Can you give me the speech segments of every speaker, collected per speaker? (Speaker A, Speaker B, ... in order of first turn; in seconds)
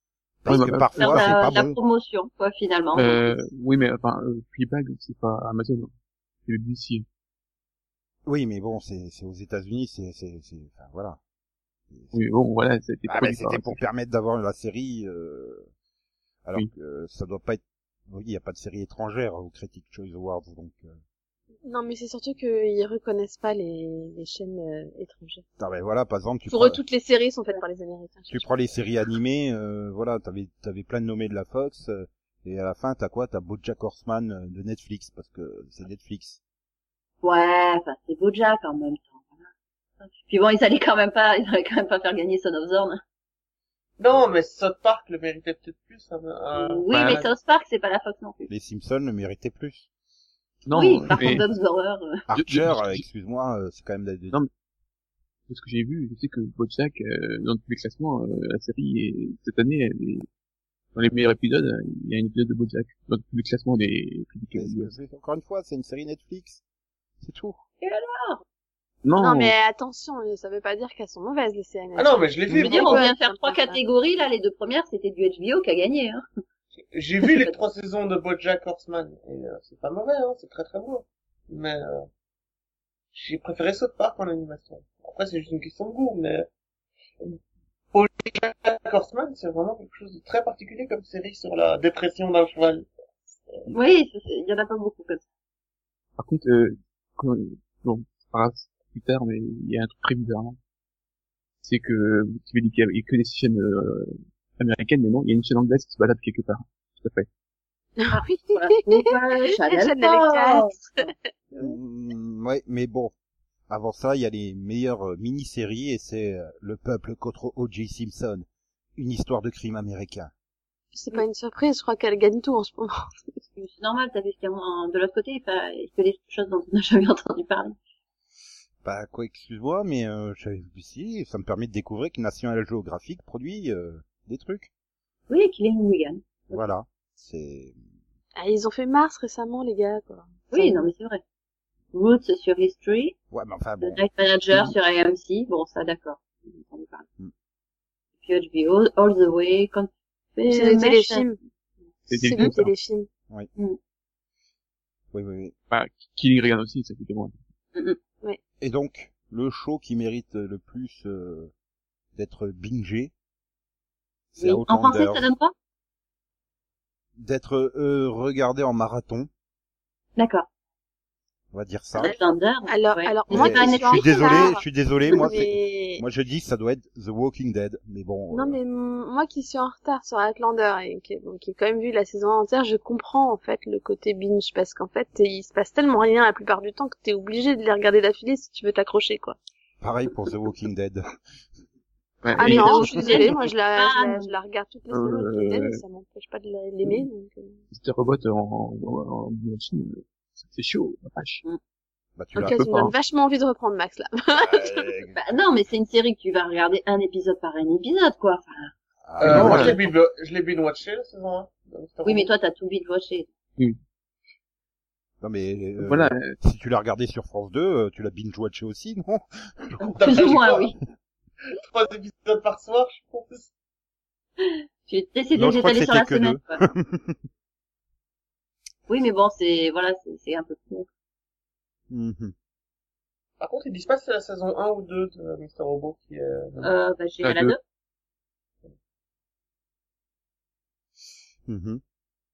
Speaker A: 0.4-1.8, 8.3-11.2, 11.9-12.2, 13.1-15.7, 16.4-21.0, 25.6-26.8, 28.3-36.4, 48.5-49.9, 51.1-51.4, 52.3-54.4, 64.5-66.6, 67.2-67.6, 111.6-113.1, 113.7-120.3, 128.8-134.7, 136.5-137.8, 143.3-144.0, 155.1-155.5, 158.6-161.5, 162.2-163.1, 164.3-165.3, 167.2-169.3, 171.5-172.2, 173.3-178.6, 189.8-191.0, 202.2-202.6, 204.3-205.3, 209.1-209.8, 215.2-220.4, 225.3-227.2, 231.9-232.3, 241.5-241.8
Speaker B: 0.5-1.5, 3.0-5.9, 6.5-7.1, 12.1-13.8, 46.9-47.3, 50.7-51.5, 52.4-53.0, 55.5-60.3, 61.0-64.9, 69.0-69.5, 96.2-100.6, 101.6-107.3, 152.1-152.7, 155.7-157.3, 192.2-193.4, 194.9-195.8, 197.7-201.4, 202.3-202.9, 209.2-209.8, 215.8-216.4, 237.2-237.6
Speaker C: 1.0-3.4, 37.2-39.4, 40.0-43.0, 46.6-48.5, 50.7-52.2, 67.9-68.3, 72.6-76.2, 93.7-95.2, 108.1-110.5, 123.6-127.8, 135.3-136.6, 140.5-141.2, 141.9-143.2, 143.8-147.1, 148.2-151.3, 164.4-165.5, 170.2-170.5, 172.0-174.5, 192.4-194.3, 205.2-208.7, 212.0-213.3, 220.0-220.8, 224.9-226.6, 228.9-230.9, 236.6-237.6
Speaker D: 21.6-25.4, 26.5-28.6, 69.2-73.8, 108.0-111.1, 120.9-123.4, 138.4-140.9, 150.5-151.4, 152.1-153.1, 172.0-176.0, 178.3-189.4, 192.3-197.6, 202.4-204.9
Speaker E: 44.0-47.1, 72.0-73.0, 76.9-82.1, 83.1-86.5, 87.9-93.7, 209.2-212.3, 220.0-220.7, 221.5-223.5, 233.4-236.8